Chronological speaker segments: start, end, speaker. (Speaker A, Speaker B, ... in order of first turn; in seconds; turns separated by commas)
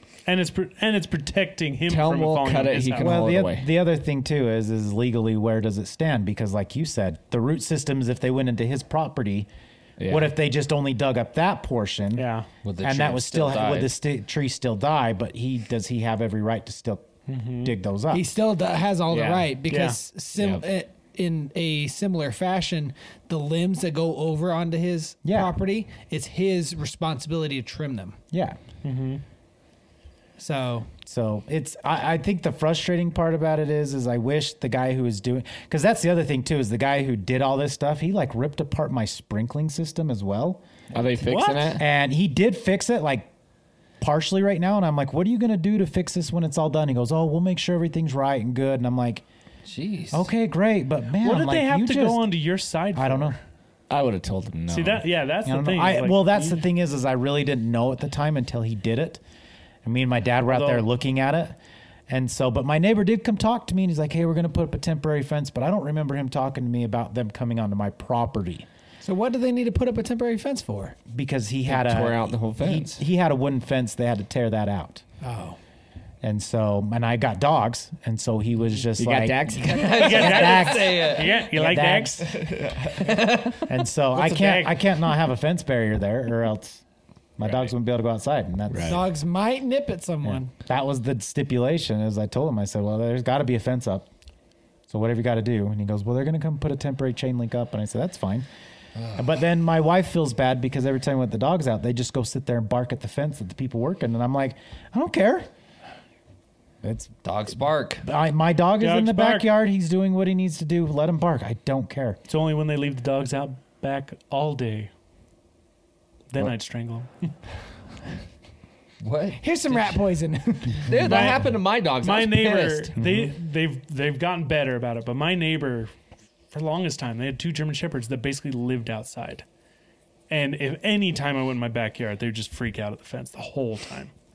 Speaker A: 0.2-3.2, Speaker B: 1.9-3.7, Speaker C: 3.0-9.5, Speaker B: 10.0-10.3, Speaker C: 10.1-12.3, Speaker A: 12.1-12.5, Speaker D: 12.6-13.9, Speaker C: 12.8-18.3, Speaker A: 17.3-17.7, Speaker E: 18.1-28.2, Speaker B: 19.1-19.5, Speaker A: 19.7-20.0, Speaker B: 20.3-20.6, Speaker C: 25.2-25.5, Speaker C: 28.3-28.6, Speaker A: 28.8-29.2, Speaker E: 30.4-30.9, Speaker C: 31.0-40.6, Speaker B: 40.9-41.8, Speaker A: 41.2-41.8, Speaker C: 41.8-43.3, Speaker C: 44.0-49.2, Speaker D: 49.6-50.2, Speaker C: 50.1-52.3, Speaker A: 51.2-53.4, Speaker C: 52.9-53.4, Speaker B: 53.9-55.0, Speaker A: 54.7-56.6, Speaker C: 55.4-59.2, Speaker C: 59.8-61.6, Speaker A: 60.5-60.8, Speaker C: 62.1-68.7, Speaker E: 69.0-71.0, Speaker C: 71.1-75.0, Speaker B: 71.7-73.0, Speaker E: 75.2-75.6, Speaker C: 76.2-79.5, Speaker B: 79.0-80.2, Speaker D: 79.6-81.4, Speaker A: 79.9-82.3, Speaker C: 80.0-82.3, Speaker B: 82.3-83.3, Speaker D: 83.0-83.7, Speaker C: 83.7-86.8, Speaker A: 84.2-84.7, Speaker C: 87.4-89.0, Speaker B: 88.7-89.0, Speaker E: 88.8-90.5, Speaker C: 90.2-94.1, Speaker C: 94.9-98.5, Speaker C: 99.1-105.5, Speaker C: 106.8-107.1, Speaker D: 107.2-108.0, Speaker C: 108.0-112.2, Speaker A: 108.8-109.5, Speaker A: 112.3-114.9, Speaker A: 116.3-117.3, Speaker D: 119.0-120.0, Speaker E: 119.4-120.8, Speaker B: 120.8-122.9, Speaker A: 121.0-125.9, Speaker C: 122.9-123.3, Speaker A: 126.5-129.4, Speaker A: 130.3-134.1